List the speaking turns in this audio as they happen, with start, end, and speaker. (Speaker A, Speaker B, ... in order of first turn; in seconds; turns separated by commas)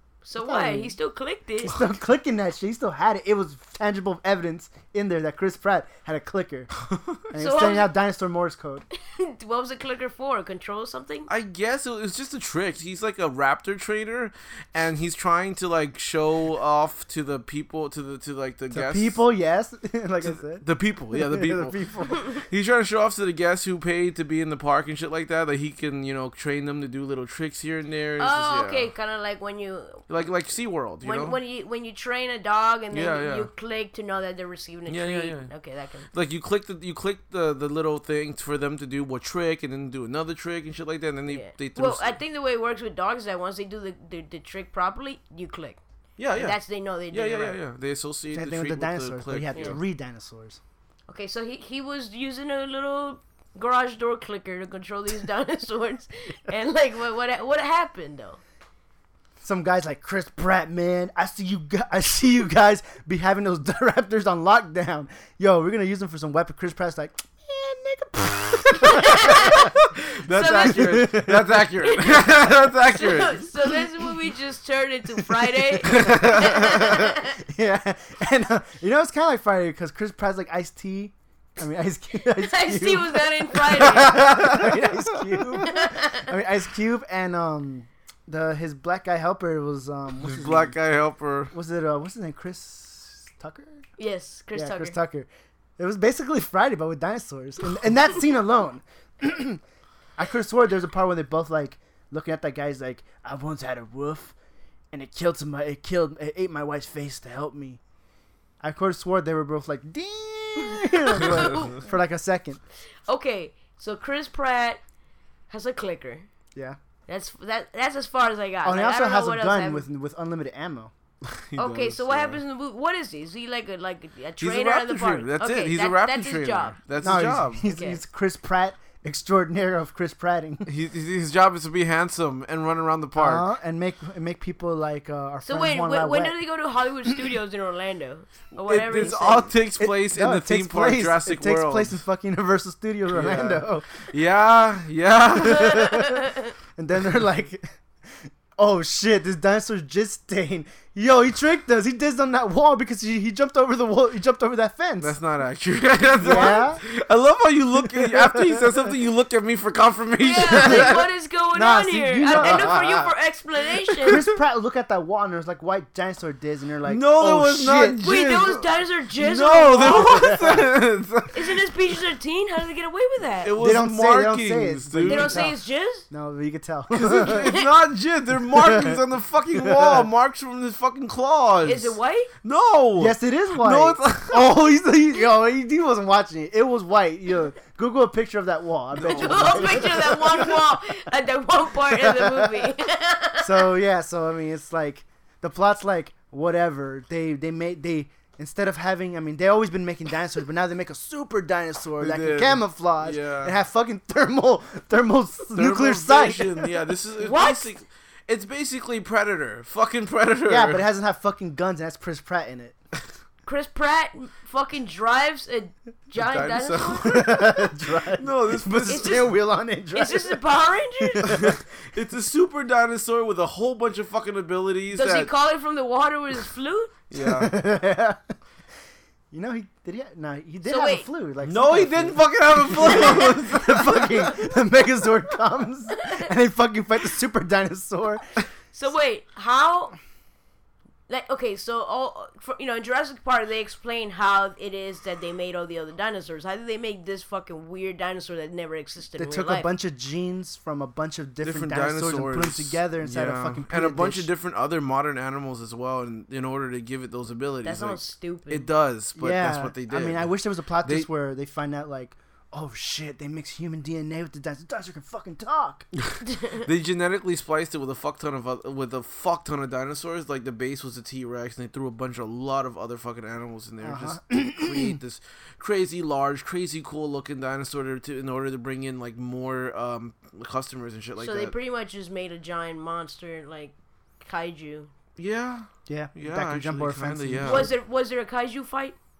Speaker A: 0.2-1.8, Speaker B: 0.4-0.9, Speaker B: 1.6-6.7, Speaker B: 7.3-8.8, Speaker A: 7.4-7.9, Speaker A: 9.1-11.3, Speaker C: 11.3-19.2, Speaker B: 18.7-22.3, Speaker C: 20.2-28.9, Speaker A: 28.2-30.0, Speaker C: 30.1-31.4, Speaker A: 31.0-36.1, Speaker C: 32.9-33.5, Speaker C: 34.9-35.5, Speaker C: 36.1-42.1, Speaker A: 41.3-45.8, Speaker C: 46.2-46.6, Speaker A: 46.3-47.6, Speaker C: 47.1-49.8, Speaker B: 48.3-50.6, Speaker A: 49.5-49.8, Speaker A: 51.1-58.4, Speaker B: 59.4-69.7, Speaker A: 68.8-69.7, Speaker C: 70.0-73.5, Speaker A: 70.3-71.1, Speaker B: 70.6-71.7, Speaker A: 71.8-77.4, Speaker B: 75.8-90.7, Speaker C: 75.8-76.9, Speaker A: 82.3-84.3, Speaker C: 84.0-84.9, Speaker A: 85.6-86.3, Speaker C: 90.2-91.5, Speaker B: 91.5-93.8, Speaker A: 94.0-95.0, Speaker B: 94.5-99.6, Speaker B: 100.2-104.3, Speaker B: 104.9-107.8, Speaker B: 108.6-112.6, Speaker A: 110.8-111.9, Speaker A: 113.1-114.8, Speaker A: 115.5-116.3, Speaker A: 117.1-119.8, Speaker B: 118.6-120.9, Speaker C: 121.3-122.4, Speaker A: 121.5-126.8, Speaker C: 124.4-127.6, Speaker B: 127.0-130.7, Speaker A: 127.7-128.0, Speaker C: 130.7-133.4, Speaker B: 133.2-136.3, Speaker A: 135.4-139.5, Speaker C: 138.6-141.9, Speaker B: 139.8-144.0, Speaker C: 143.1-146.1, Speaker B: 145.4-146.2, Speaker A: 145.9-146.5, Speaker B: 146.8-147.7, Speaker B: 148.2-155.2, Speaker C: 155.0-161.1, Speaker B: 156.2-156.8, Speaker B: 157.9-158.6, Speaker A: 160.2-164.2, Speaker B: 160.6-161.0, Speaker B: 161.5-162.8, Speaker C: 162.3-163.1, Speaker B: 164.1-168.0, Speaker C: 166.8-171.6, Speaker A: 168.0-170.4, Speaker B: 169.9-170.7, Speaker A: 171.3-173.5, Speaker C: 173.4-175.5, Speaker B: 173.6-175.6, Speaker A: 175.1-176.0, Speaker B: 176.1-177.5, Speaker C: 176.9-184.4, Speaker A: 177.3-177.7, Speaker B: 178.4-179.0, Speaker B: 179.5-180.1, Speaker A: 181.6-182.3, Speaker B: 183.0-190.6, Speaker C: 188.9-190.1, Speaker A: 189.0-193.7, Speaker B: 191.9-192.7, Speaker B: 193.4-206.7, Speaker C: 202.0-203.5, Speaker C: 205.5-210.8, Speaker A: 207.2-207.7, Speaker B: 210.4-212.8, Speaker A: 213.4-217.3, Speaker C: 216.2-217.6, Speaker B: 217.1-220.4, Speaker C: 218.2-219.2, Speaker A: 218.8-219.3, Speaker A: 219.9-221.2, Speaker B: 221.1-221.6, Speaker C: 221.2-225.3, Speaker A: 224.9-226.9, Speaker C: 227.1-227.5, Speaker B: 227.2-228.2, Speaker B: 229.3-238.2, Speaker A: 230.6-231.1, Speaker C: 231.4-234.5, Speaker A: 238.7-240.0, Speaker A: 241.1-249.7, Speaker B: 249.2-254.3, Speaker C: 251.4-260.3, Speaker A: 257.6-258.7, Speaker B: 259.1-265.9, Speaker C: 266.1-281.5, Speaker A: 266.3-266.6, Speaker B: 273.8-275.0, Speaker A: 281.2-284.9, Speaker C: 285.2-287.7, Speaker B: 285.9-287.7, Speaker A: 287.4-288.9